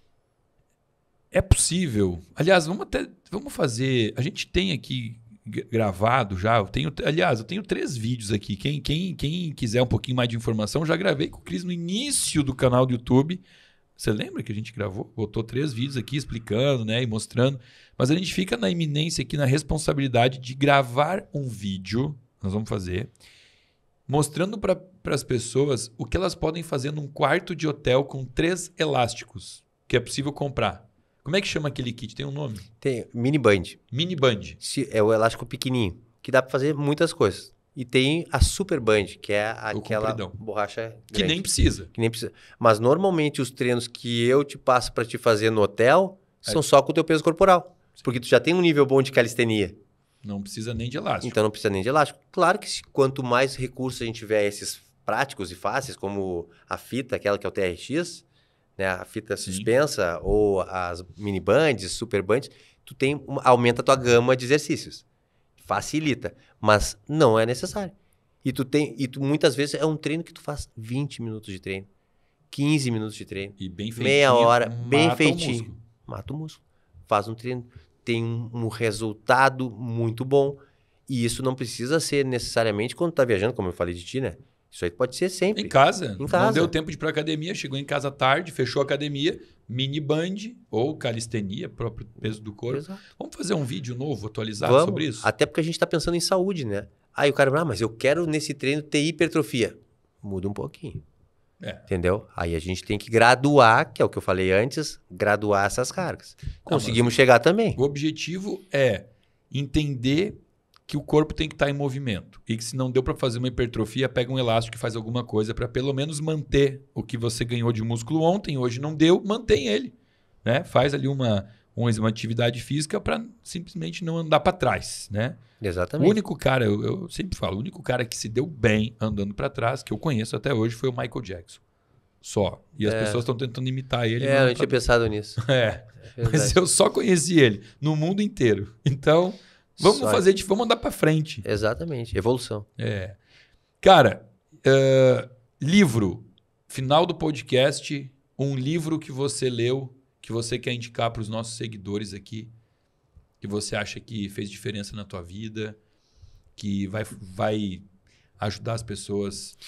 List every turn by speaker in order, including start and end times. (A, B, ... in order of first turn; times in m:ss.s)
0:01.3-0:13.4 A
0:14.0-0:23.1 A
0:24.1-0:32.6 A
0:32.8-0:33.8 B
0:33.9-0:34.6 A
0:34.6-0:49.8 B
0:39.7-0:40.3 A
0:41.1-0:41.9 A
0:50.2-0:51.4 A
0:51.2-0:58.2 B
0:58.8-1:05.0 B
0:59.4-0:59.7 A
1:05.6-1:11.9 B
1:12.5-1:26.7 B
1:13.6-1:15.8 A
1:25.5-1:35.3 A
1:32.7-1:33.0 B
1:34.6-1:41.0 B
1:41.6-1:41.8 A
1:41.9-1:47.8 B
1:46.6-1:47.1 A
1:47.8-1:50.4 A
1:50.9-2:05.4 A
2:05.6-2:06.2 B
2:06.0-2:11.6 A
2:12.2-2:14.7 A
2:12.8-2:13.2 B
2:14.2-2:15.4 B
2:15.4-2:21.4 A
2:16.1-2:16.6 B
2:19.8-2:20.2 B
2:21.4-2:22.7 B
2:22.8-2:23.2 A
2:23.8-2:32.5 A
2:33.4-2:35.8 A
2:36.6-2:37.8 A
2:38.4-2:39.6 A